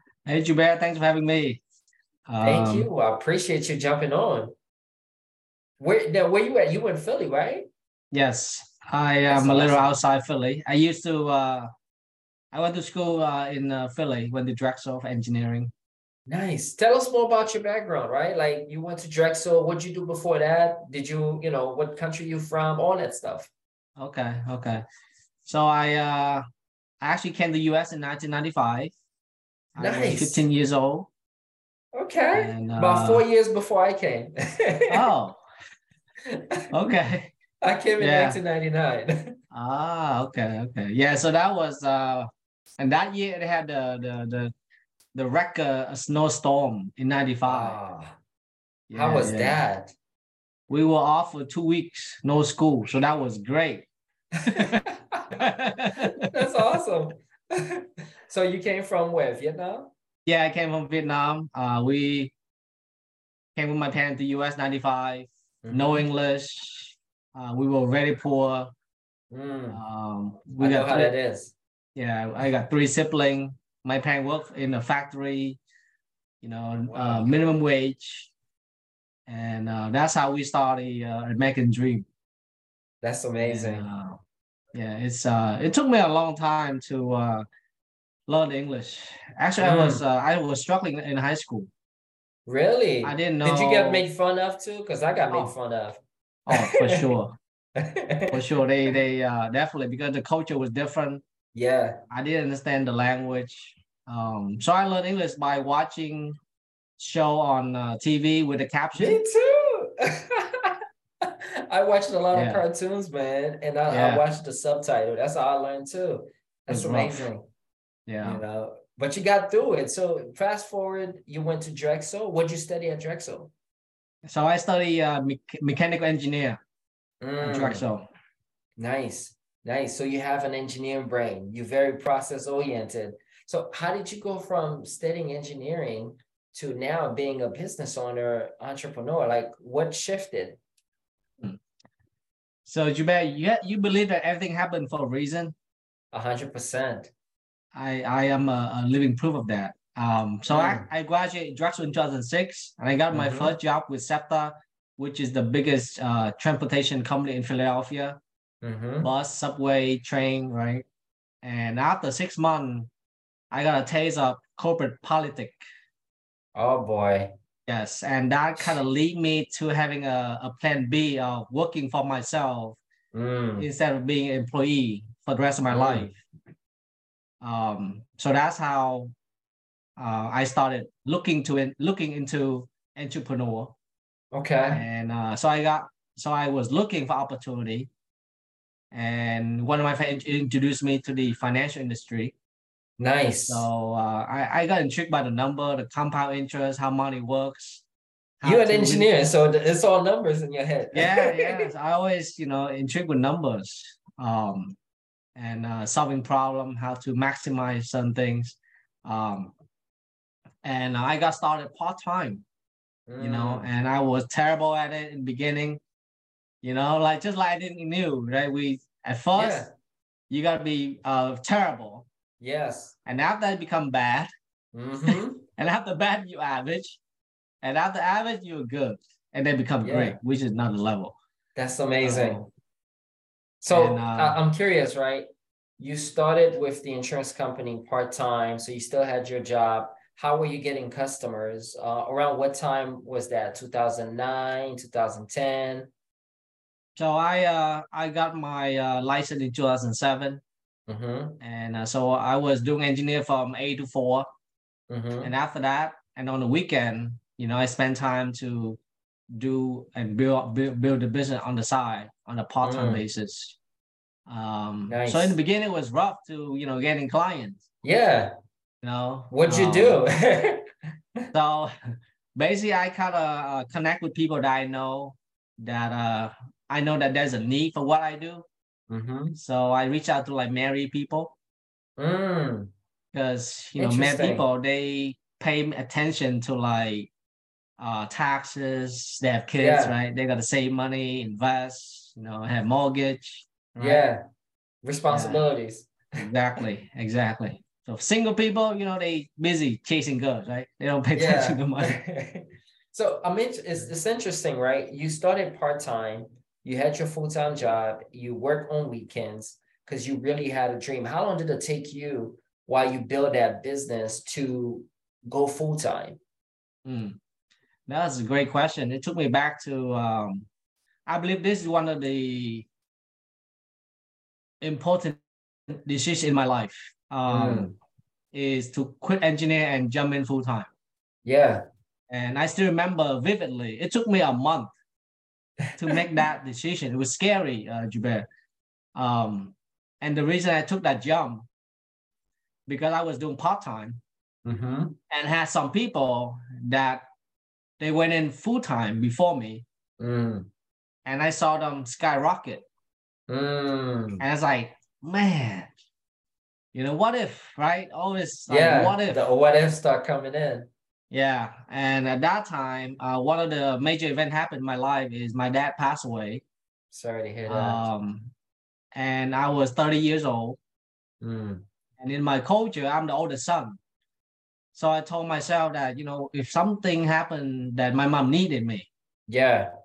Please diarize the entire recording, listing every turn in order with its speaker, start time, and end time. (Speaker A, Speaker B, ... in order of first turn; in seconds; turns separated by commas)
Speaker A: 0.2-1.6, Speaker A: 2.3-2.9, Speaker B: 2.4-4.5, Speaker B: 5.8-7.7, Speaker A: 8.1-11.7, Speaker B: 9.3-9.9, Speaker A: 12.5-15.7, Speaker B: 16.3-23.5, Speaker A: 24.0-24.8, Speaker A: 25.4-26.4, Speaker A: 27.0-28.9, Speaker A: 29.7-31.1, Speaker B: 29.8-30.4, Speaker B: 31.9-35.1, Speaker A: 32.3-33.2, Speaker A: 34.9-35.4, Speaker A: 36.7-37.3, Speaker B: 37.6-39.3, Speaker A: 38.0-38.4, Speaker A: 39.5-42.3, Speaker A: 42.8-44.5, Speaker A: 45.1-47.8, Speaker B: 47.5-48.2, Speaker A: 48.9-49.6, Speaker B: 48.9-49.9, Speaker A: 50.7-53.9, Speaker B: 54.4-55.3, Speaker A: 55.4-56.2, Speaker B: 56.0-59.9, Speaker A: 60.2-62.3, Speaker A: 63.5-68.7, Speaker B: 65.6-66.0, Speaker B: 69.3-69.8, Speaker A: 69.7-71.1, Speaker B: 70.6-71.5, Speaker A: 72.0-75.6, Speaker A: 76.4-78.3, Speaker B: 76.9-77.3, Speaker A: 79.3-82.0, Speaker B: 83.0-83.9, Speaker A: 83.4-84.2, Speaker A: 84.7-87.5, Speaker A: 88.3-91.7, Speaker B: 89.6-90.0, Speaker B: 92.5-97.0, Speaker A: 93.0-94.0, Speaker A: 96.5-97.4, Speaker B: 97.8-98.3, Speaker A: 98.3-101.2, Speaker B: 101.5-102.0, Speaker A: 102.1-106.4, Speaker A: 107.0-109.2, Speaker B: 108.9-110.7, Speaker B: 111.2-117.5, Speaker A: 112.3-112.6, Speaker A: 113.9-114.2, Speaker A: 116.7-117.2, Speaker A: 118.1-118.4, Speaker B: 118.2-123.5, Speaker A: 124.2-126.6, Speaker B: 127.2-127.8, Speaker A: 127.4-128.1, Speaker B: 128.8-140.6, Speaker A: 142.7-145.5, Speaker B: 146.1-147.1, Speaker A: 147.7-158.2, Speaker B: 150.5-150.9, Speaker B: 153.1-153.5, Speaker B: 158.6-159.1, Speaker A: 159.0-160.8, Speaker A: 161.4-162.9, Speaker A: 163.5-165.6, Speaker B: 166.5-167.3, Speaker A: 167.7-172.8, Speaker B: 173.1-173.7, Speaker A: 173.6-176.2, Speaker B: 175.7-176.2, Speaker A: 177.4-179.1, Speaker A: 180.0-183.7, Speaker B: 184.3-184.8, Speaker A: 184.7-187.9, Speaker A: 188.9-192.3, Speaker B: 193.0-193.7, Speaker A: 193.5-197.8, Speaker A: 198.4-199.1, Speaker B: 198.4-201.7, Speaker A: 200.9-204.8, Speaker A: 205.3-209.5, Speaker A: 210.6-212.4, Speaker B: 213.1-213.7, Speaker A: 213.2-215.8, Speaker A: 216.6-219.7, Speaker B: 219.3-219.7, Speaker A: 220.3-222.1, Speaker B: 222.4-222.9, Speaker A: 223.1-224.3, Speaker B: 224.7-225.4, Speaker A: 225.1-227.0, Speaker A: 227.6-231.2, Speaker B: 229.8-230.2, Speaker B: 231.6-232.4, Speaker A: 232.0-232.5, Speaker B: 233.6-235.3, Speaker A: 233.7-234.4, Speaker B: 235.8-245.9, Speaker A: 246.9-250.4, Speaker B: 250.9-251.4, Speaker A: 251.4-254.2, Speaker B: 254.9-255.3, Speaker A: 255.2-258.8, Speaker A: 259.3-263.6, Speaker B: 262.6-263.0, Speaker A: 264.3-267.6, Speaker B: 264.9-265.4, Speaker B: 267.8-268.3, Speaker A: 268.8-270.0, Speaker B: 269.3-270.6, Speaker A: 271.3-271.7, Speaker A: 272.4-278.4, Speaker B: 278.9-279.4, Speaker A: 279.4-281.3, Speaker B: 282.0-282.7, Speaker A: 283.1-287.1, Speaker B: 283.8-284.4, Speaker A: 287.8-294.1, Speaker B: 289.6-289.9, Speaker B: 293.8-294.2, Speaker B: 294.8-296.2, Speaker A: 295.1-295.4, Speaker A: 296.1-302.0, Speaker B: 301.1-316.2, Speaker A: 316.9-317.2, Speaker A: 317.9-320.5, Speaker A: 321.1-322.6, Speaker A: 324.6-325.2, Speaker A: 325.7-327.7, Speaker B: 327.3-327.7, Speaker A: 328.3-330.7, Speaker B: 331.2-331.6, Speaker A: 332.1-334.7, Speaker A: 335.8-338.3, Speaker A: 338.9-341.4, Speaker A: 342.7-344.0, Speaker B: 344.4-345.0, Speaker A: 345.1-347.0, Speaker A: 347.8-349.6, Speaker B: 350.0-350.5, Speaker A: 351.0-352.6, Speaker B: 353.3-354.2, Speaker A: 354.2-355.7, Speaker A: 356.7-359.2, Speaker B: 358.5-360.7, Speaker A: 361.1-366.4, Speaker B: 366.9-367.9, Speaker A: 367.5-368.3, Speaker A: 368.9-370.6, Speaker B: 371.2-371.6, Speaker A: 372.0-373.8, Speaker A: 374.7-378.9, Speaker B: 379.3-379.7